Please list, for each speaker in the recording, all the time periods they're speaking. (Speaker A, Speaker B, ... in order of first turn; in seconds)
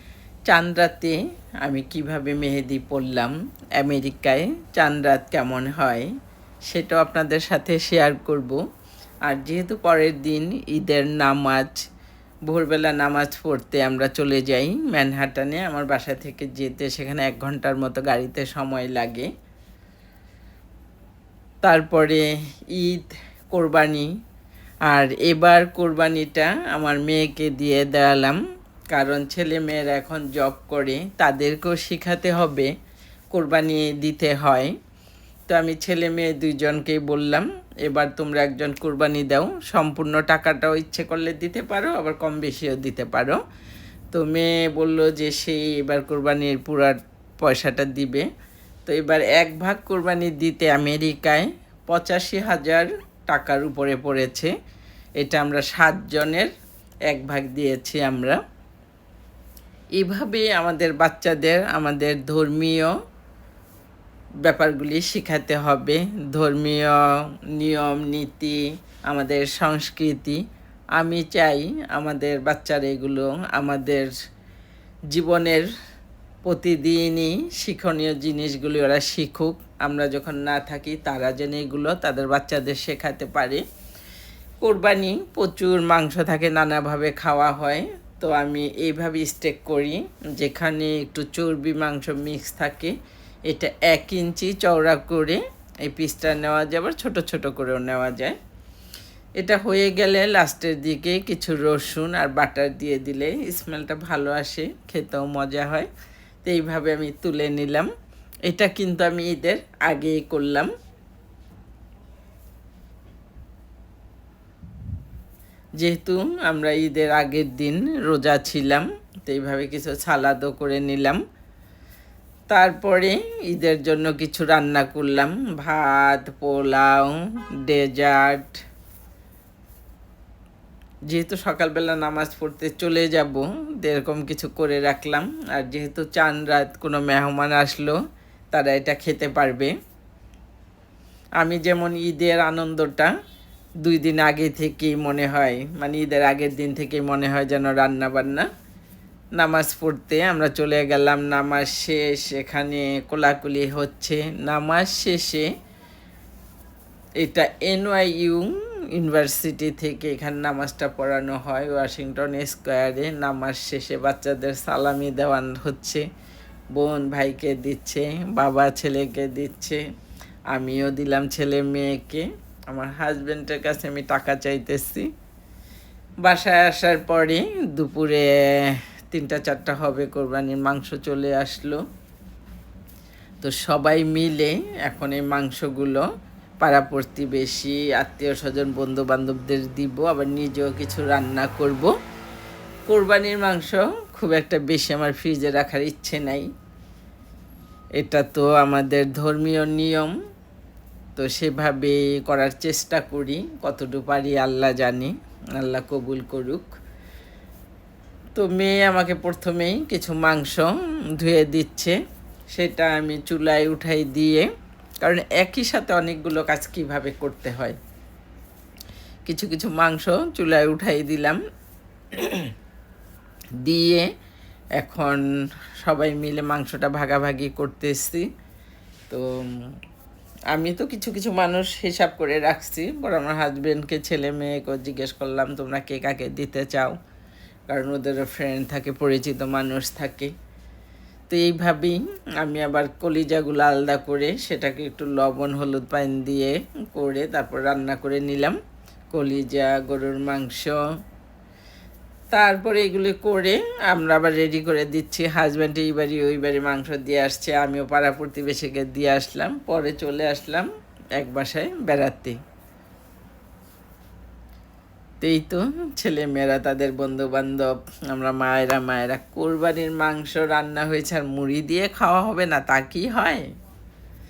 Speaker A: 0.5-6.1, 6.7-8.6, 9.3-11.8, 12.5-19.3, 21.6-24.1, 24.9-28.4, 28.9-32.7, 33.3-34.7, 35.5-43.4, 44.1-48.3, 48.9-54.5, 55.2-56.5, 57.1-58.4, 60.0-62.9, 64.5-67.0, 67.6-70.4, 71.0-74.1, 75.1-75.7, 76.5-83.6, 84.6-93.0, 93.5-98.4, 99.4-105.9, 106.5-107.9, 108.5-110.7, 115.8-121.2, 122.5-128.6, 131.1-138.0, 138.5-139.7, 141.4-143.1, 143.8-148.5, 149.4-155.5, 157.2-166.1, 166.8-169.8, 170.5-175.1, 176.2-181.8, 183.4-186.1, 186.6-191.9, 192.9-196.5, 198.0-200.1, 201.2-206.8, 208.4-212.0, 212.5-214.5, 215.0-217.8, 219.3-221.4, 222.1-222.5, 223.6-224.1, 224.8-225.2, 225.8-228.3, 229.1-229.7, 230.5-237.0, 237.7-240.3, 241.3-248.6, 249.1-250.8, 252.3-262.4, 265.2-273.4